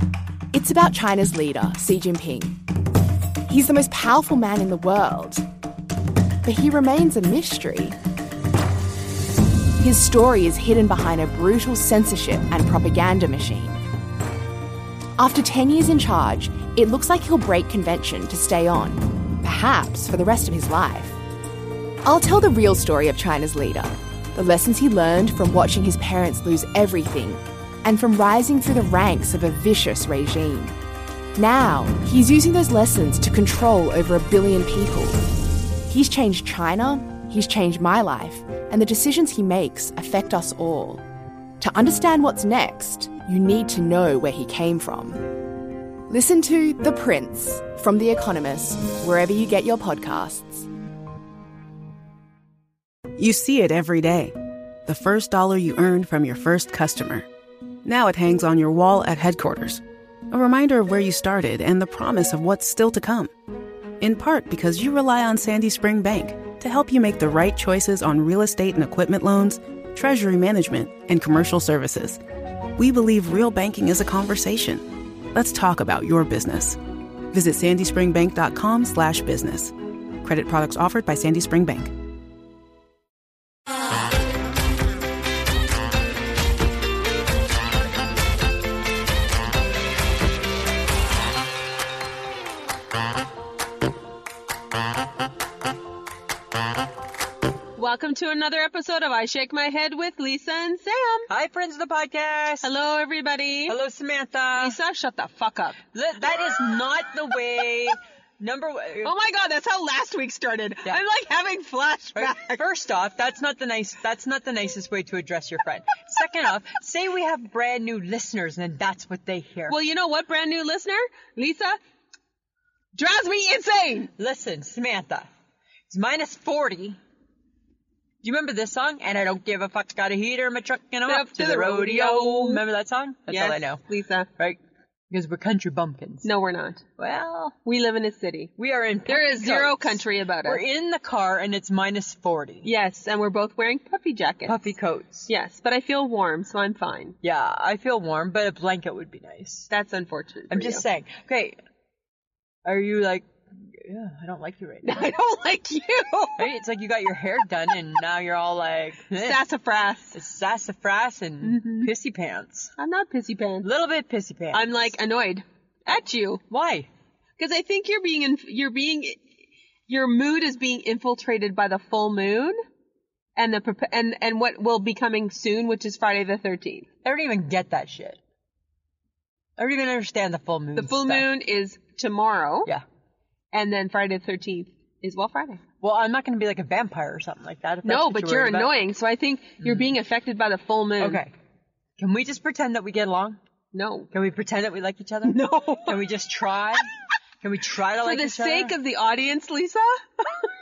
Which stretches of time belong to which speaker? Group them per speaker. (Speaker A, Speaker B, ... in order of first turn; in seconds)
Speaker A: 0.5-2.6, 3.5-5.4, 6.4-8.0, 9.8-13.8, 15.2-21.2, 22.0-30.8, 31.3-35.3, 35.9-41.0, 41.6-45.3, 46.1-50.7
Speaker B: 53.2-57.2, 57.8-63.3, 64.0-72.2, 72.8-76.8, 77.3-81.9
Speaker C: 97.8-101.3, 102.6-103.8, 104.5-105.8, 109.0-112.6, 119.7-121.8, 123.0-124.1, 131.1-132.6, 133.3-134.3, 136.2-136.8, 137.6-138.5, 139.1-140.6, 142.6-144.6, 145.3-147.2, 149.7-150.8, 154.8-156.5, 159.2-160.2, 161.4-161.9, 162.8-163.7, 164.5-166.4, 167.4-169.2, 169.9-172.6, 173.4-176.8, 180.8-182.7, 183.5-185.6, 187.8-191.2, 193.7-194.1, 195.2-196.0, 198.0-200.4
Speaker D: 101.3-102.7, 103.7-104.8, 105.9-109.1, 112.2-119.8, 124.2-125.3, 125.9-127.0, 128.2-133.8, 135.1-136.3, 137.0-137.6, 138.6-142.7, 144.5-145.3, 147.2-149.7, 150.5-151.6, 152.6-155.1, 156.4-159.4, 160.1-162.7, 163.6-164.9, 166.5-166.9, 177.0-178.2, 179.6-181.2, 185.8-188.7, 189.6-189.9, 191.0-191.3, 192.0-193.4, 194.1-196.9, 197.4-198.7